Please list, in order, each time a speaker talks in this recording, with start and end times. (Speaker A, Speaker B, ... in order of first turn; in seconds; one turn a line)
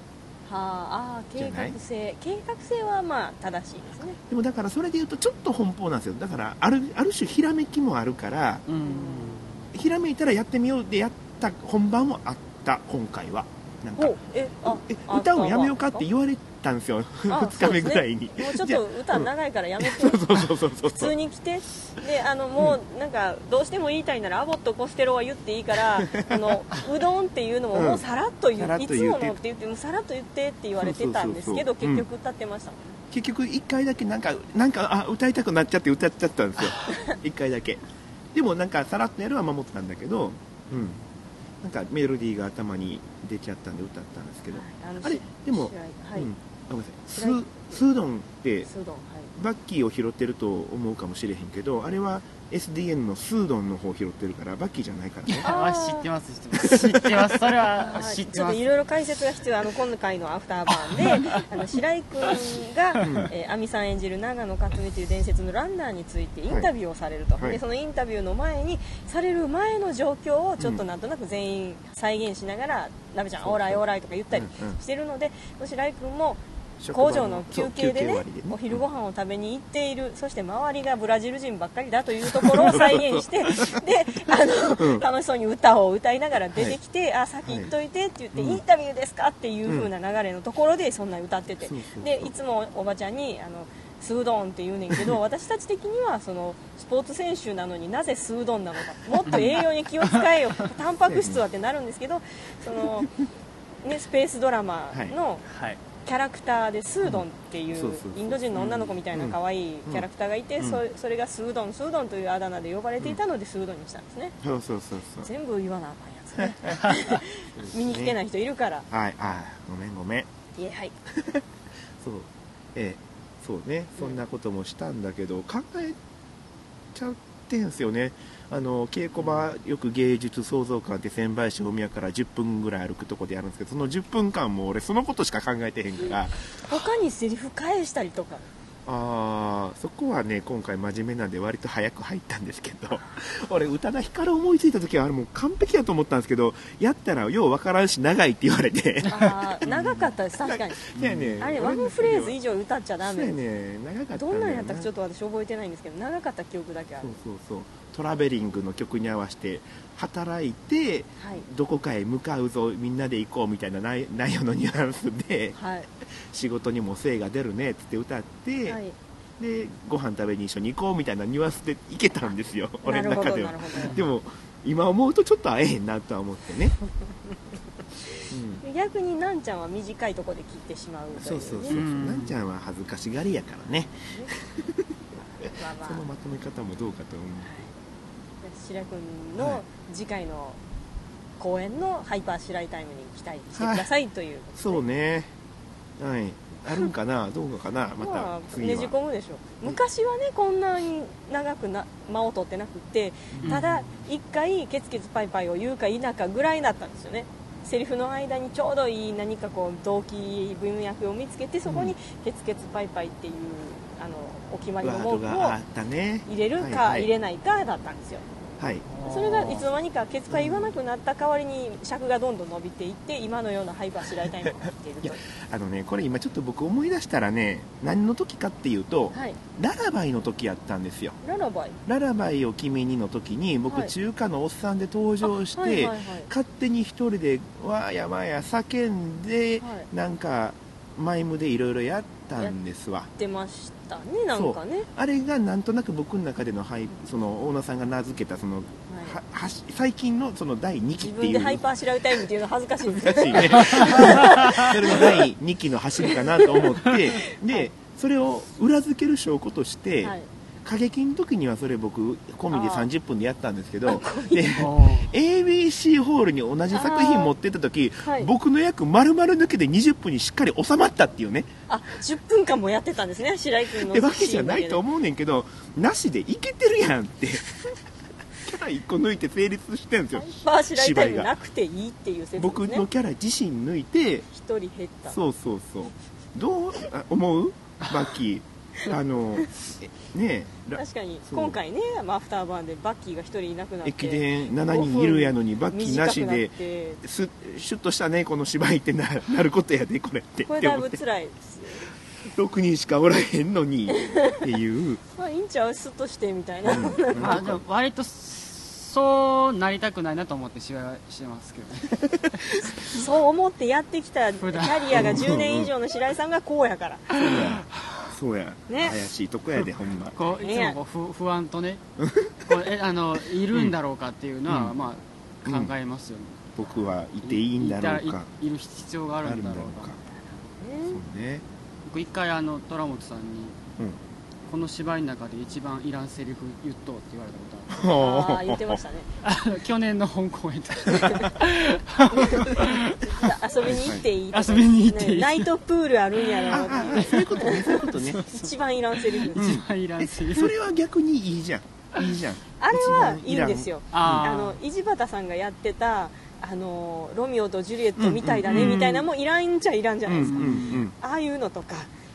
Speaker A: 0.4-4.2
Speaker B: 1.4-1.8
Speaker B: 4.3-8.7
Speaker C: 8.7-9.7
Speaker A: 8.8-9.4
Speaker B: 9.7-21.1
Speaker A: 14.0-16.1
Speaker A: 17.3-33.0
Speaker B: 26.0-26.6
Speaker B: 27.7-29.4
Speaker B: 30.8-32.1
Speaker B: 33.1-37.8
Speaker B: 38.3-41.0
Speaker B: 41.6-48.7
Speaker A: 44.5-46.3
Speaker A: 47.1-47.8
Speaker A: 48.6-49.3
Speaker B: 49.3-55.5
Speaker C: 55.3-58.6
Speaker A: 55.4-56.1
Speaker B: 56.6-57.2
Speaker A: 57.7-103.1
Speaker C: 61.0-61.4
Speaker B: 63.0-63.3
Speaker B: 70.6-70.8
Speaker B: 73.4-74.8
Speaker B: 76.8-78.8
Speaker B: 82.3-83.8
Speaker B: 84.7-85.1
Speaker B: 87.5-87.7
Speaker B: 88.3-88.6
Speaker B: 91.6-92.3
Speaker B: 94.9-95.2
Speaker C: 99.3-100.3
Speaker B: 101.0-101.4
Speaker A: 103.8-105.4
Speaker C: 105.5-105.8
Speaker A: 106.0-114.3
Speaker B: 107.0-110.1
Speaker B: 114.4-115.3
Speaker A: 115.2-118.9
Speaker B: 116.3-116.9
Speaker B: 117.5-118.2
Speaker B: 118.9-120.3
Speaker A: 120.5-120.9
Speaker B: 121.2-121.4
Speaker B: 122.0-126.0
Speaker B: 126.9-136.8
Speaker C: 129.2-129.5
Speaker A: 136.1-138.5
Speaker B: 138.8-152.4
Speaker A: 149.0-150.8
Speaker C: 150.9-151.7
Speaker A: 151.4-153.3
Speaker B: 153.0-154.9
Speaker A: 154.1-157.2
Speaker B: 157.0-165.6
Speaker A: 161.2-161.4
Speaker A: 165.5-165.9
Speaker B: 166.1-168.8
Speaker A: 168.7-168.9
Speaker B: 169.4-176.8
Speaker A: 172.8-174.0
Speaker B: 178.3-178.6
Speaker A: 178.6-181.8
Speaker B: 181.1-184.7
Speaker C: 181.6-182.4
Speaker A: 184.0-184.4
Speaker A: 185.1-186.1
Speaker B: 185.6-187.5
Speaker A: 187.4-187.7
Speaker A: 188.4-190.6
Speaker B: 189.3-189.6
Speaker A: 191.4-194.8
Speaker B: 193.5-193.9
Speaker B: 194.5-195.3
Speaker B: 196.0-198.9
Speaker A: 198.0-215.6
Speaker B: 203.3-203.6
Speaker C: 203.4-204.1
Speaker B: 211.7-211.9
Speaker B: 214.8-217.1
Speaker A: 216.2-218.2
Speaker B: 218.6-218.9
Speaker C: 218.8-219.7
Speaker A: 219.0-225.2
Speaker B: 220.3-220.7
Speaker B: 225.0-231.2
Speaker A: 229.1-229.4
Speaker A: 231.2-231.8
Speaker B: 231.8-243.1
Speaker A: 233.7-233.9
Speaker A: 235.2-236.3
Speaker A: 239.6-239.9
Speaker A: 243.2-244.9
Speaker B: 244.3-251.7
Speaker A: 248.9-249.2
Speaker A: 251.0-255.2
Speaker B: 252.8-271.5
Speaker A: 256.0-257.7
Speaker A: 260.0-260.3
Speaker A: 262.5-262.9
Speaker A: 263.9-264.6
Speaker C: 264.6-265.1
Speaker A: 266.7-267.3
Speaker A: 268.0-268.3
Speaker A: 271.7-274.8
Speaker B: 273.7-277.7
Speaker B: 278.4-281.3
Speaker A: 280.1-282.9
Speaker B: 282.4-284.2
Speaker A: 284.3-285.2
Speaker B: 285.1-291.6
Speaker A: 290.7-297.0
Speaker B: 293.8-301.0
Speaker A: 300.4-301.9
Speaker B: 302.2-305.0
Speaker A: 303.9-304.4
Speaker A: 305.1-307.5
Speaker B: 306.6-307.6
Speaker C: 307.1-313.0
Speaker A: 312.6-317.2
Speaker C: 314.4-315.2
Speaker B: 314.9-315.7
Speaker C: 317.1-317.6
Speaker B: 317.2-320.2
Speaker A: 318.7-319.0
Speaker C: 320.1-321.8
Speaker A: 320.4-320.8
Speaker B: 322.0-322.5
Speaker C: 322.4-326.5
Speaker B: 323.5-323.8
Speaker B: 324.5-324.8
Speaker B: 325.4-325.7
Speaker B: 326.6-328.3
Speaker C: 327.2-329.9
Speaker B: 329.2-330.0
Speaker A: 330.5-331.0
Speaker B: 330.9-331.4
Speaker C: 331.8-333.6
Speaker C: 334.4-337.8
Speaker B: 337.7-338.8
Speaker A: 337.9-339.2
Speaker C: 339.2-343.7
Speaker A: 341.0-341.3
Speaker A: 342.1-349.5
Speaker B: 343.6-344.0
Speaker C: 344.3-345.5
Speaker C: 346.2-348.5
Speaker B: 346.5-348.2
Speaker C: 349.2-350.5
Speaker B: 349.3-354.3
Speaker A: 352.6-361.9
Speaker C: 353.9-354.6
Speaker B: 357.9-359.1
Speaker C: 358.4-358.8
Speaker B: 360.1-360.9
Speaker C: 360.2-360.9